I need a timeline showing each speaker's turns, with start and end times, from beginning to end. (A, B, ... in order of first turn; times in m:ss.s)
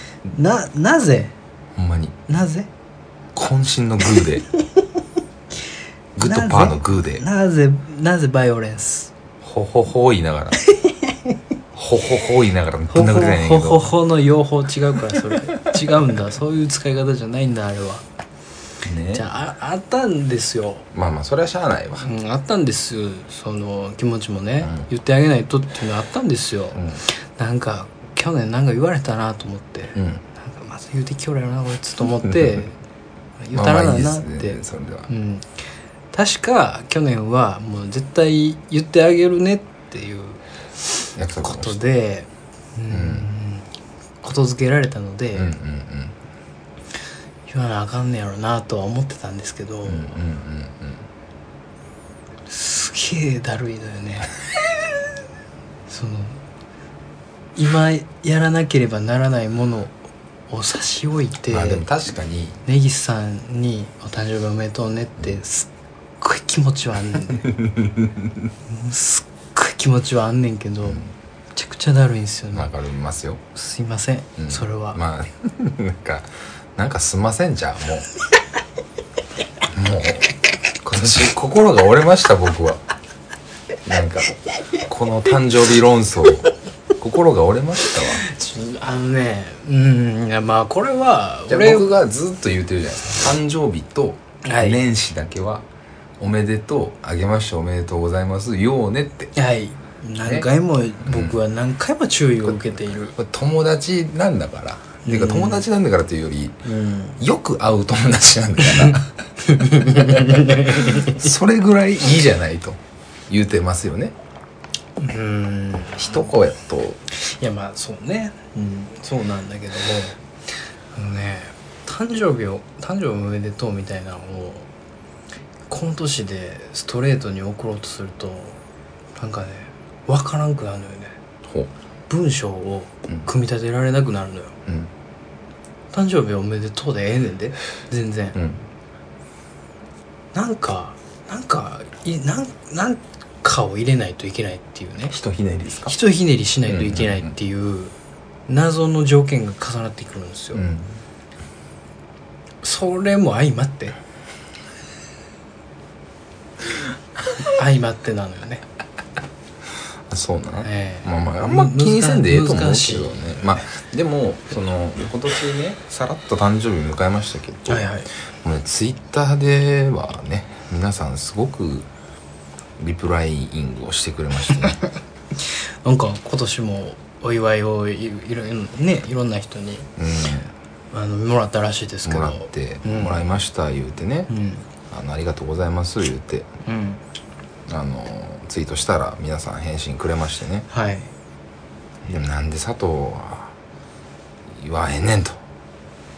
0:00.3-0:01.3 A
0:01.7-0:02.2 B
0:02.3-0:02.7 A
0:03.3-0:04.5 B
0:06.1-0:07.2 B
0:06.2-0:09.1 A
0:09.4-0:10.6 B
0:11.7-0:13.9 B
0:12.9-0:18.0 A
0:18.8-0:19.2 B
0:19.1-0:20.8 A
0:20.9-0:22.1 B
0:22.0-0:32.8 A
0:24.6-0:24.9 B
0:26.7-0:27.0 B
0:30.0-0:30.2 B
0:33.4-0:35.4 A
0:33.5-0:35.1 B
0:36.1-0:40.4 A
0:41.2-0:41.8 B
0:41.4-0:43.7 A
0:42.9-0:43.3 B
0:44.2-0:45.5 A
0:45.3-0:46.1 B
0:47.5-0:50.2 A
0:49.8-0:51.0 B
0:52.5-0:54.3 A
0:55.9-0:56.4 A
0:57.6-0:59.9 A
1:00.5-1:01.8 A
1:01.5-1:02.6 B
1:02.6-1:05.7 A
1:06.2-1:07.5 A
1:07.3-1:08.4 B
1:08.7-1:11.0 A
1:10.8-1:11.1 B
1:11.5-1:12.7 A
1:12.5-1:13.4 B
1:13.5-1:15.0 A
1:14.4-1:18.1 B
1:19.7-1:22.8 B
1:23.8-1:28.2 B
1:28.1-1:32.0 A
1:31.5-1:35.6 B
1:34.4-1:34.8 A
1:36.2-1:39.3 B
1:39.3-1:43.2 A
1:41.0-1:41.4 B
1:43.2-1:46.6 B
1:45.0-1:45.6 A
1:46.6-1:47.2 A
1:47.2-1:49.1 B
1:48.8-1:51.2 A
1:49.6-1:54.1 B
1:55.0-1:56.3 A
1:56.0-1:57.0 B
1:57.1-2:00.2 A
2:00.9-2:04.7 A
2:05.7-2:08.6 A
2:09.2-2:11.2 A
2:11.4-2:11.7 B
2:12.1-2:14.5 A
2:15.9-2:18.4 A
2:18.4-2:18.6 B
2:20.3-2:25.1 A
2:25.1-2:25.9 B
2:25.8-2:27.9 A
2:26.6-2:27.3 B
2:28.5-2:30.6 A
2:30.5-2:31.0 B
2:32.6-2:34.0 A
2:37.4-2:38.6 A
2:40.1-2:51.9 B
2:40.6-2:43.6 A
2:47.7-2:48.1 A
2:52.8-2:54.8 B
2:55.4-2:59.9 A
3:00.0-3:00.5 B
3:00.9-3:03.2 A
3:02.0-3:04.3 B
3:04.3-3:04.6 A
3:04.9-3:06.5 B
3:06.6-3:07.0 A
3:07.7-3:10.7 B
3:10.7-3:11.1 A
3:12.0-3:13.5 B
3:14.5-3:15.4 B